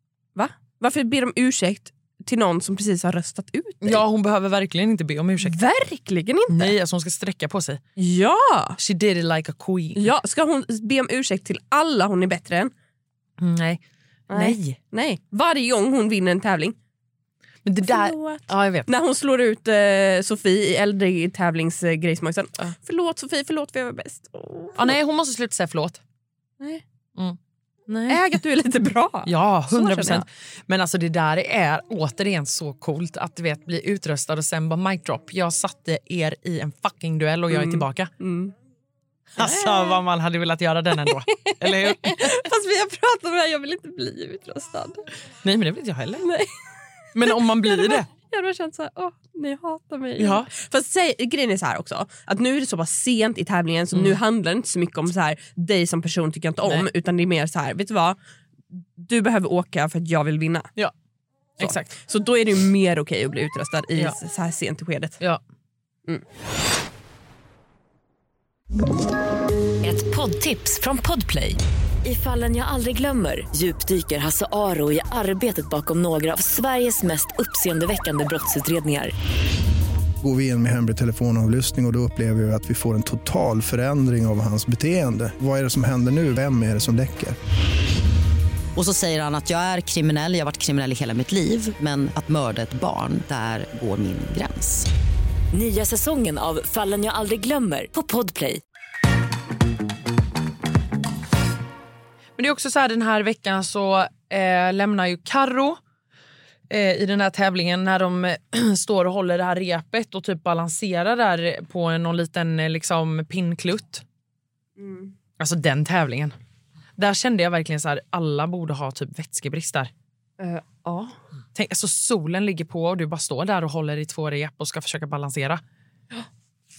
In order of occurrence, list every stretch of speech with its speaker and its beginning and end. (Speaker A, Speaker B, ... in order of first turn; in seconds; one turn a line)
Speaker A: 0.4-4.0
Speaker B: 3.8-5.6
Speaker A: 5.4-6.7
Speaker B: 6.5-7.8
Speaker A: 8.0-8.8
Speaker B: 8.8-10.1
Speaker A: 10.0-12.7
Speaker B: 13.4-13.8
Speaker A: 14.3-16.8
Speaker B: 14.3-14.8
Speaker B: 17.6-18.9
Speaker A: 17.9-24.9
Speaker B: 24.8-26.0
Speaker B: 27.9-28.2
Speaker A: 28.1-30.2
Speaker B: 29.3-38.1
Speaker A: 37.5-38.5
Speaker B: 39.4-42.4
Speaker A: 39.4-40.0
Speaker A: 41.3-45.0
Speaker B: 45.4-46.2
Speaker A: 46.2-46.5
Speaker B: 47.1-48.1
Speaker A: 47.2-58.2
Speaker B: 50.2-50.5
Speaker A: 58.7-60.7
Speaker A: 61.6-65.2
Speaker B: 61.6-61.9
Speaker C: 69.8-79.1
Speaker D: 80.2-87.4
Speaker E: 88.8-94.9
Speaker C: 95.5-98.6
Speaker B: 102.4-105.8
Speaker B: 106.7-114.0
Speaker A: 114.8-115.1
Speaker B: 115.4-116.3
Speaker B: 117.0-119.9
Speaker A: 120.4-121.2
Speaker B: 121.5-125.6